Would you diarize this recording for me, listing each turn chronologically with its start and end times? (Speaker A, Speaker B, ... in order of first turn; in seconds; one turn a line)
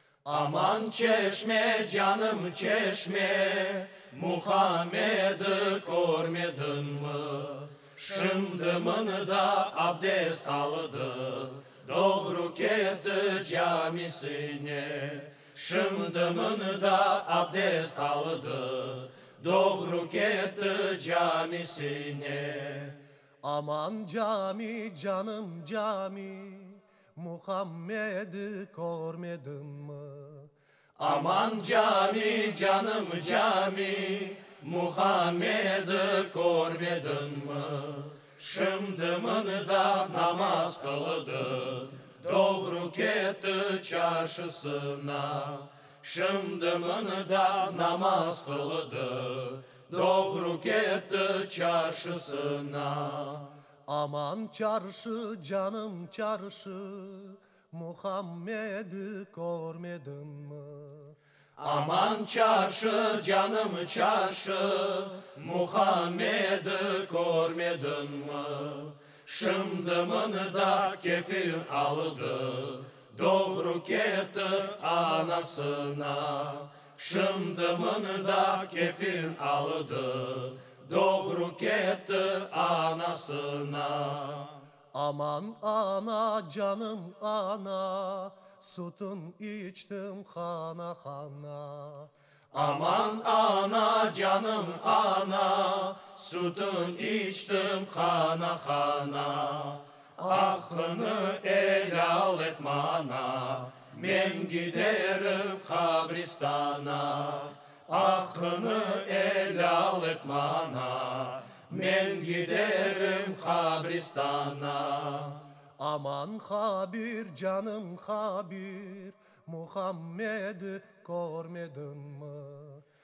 Speaker A: 0.3-23.0
Speaker B: 23.4-30.5
Speaker A: 31.0-53.5
Speaker B: 53.9-61.1
Speaker A: 61.6-84.5
Speaker B: 84.9-92.1
Speaker A: 92.5-115.4
Speaker B: 115.8-122.8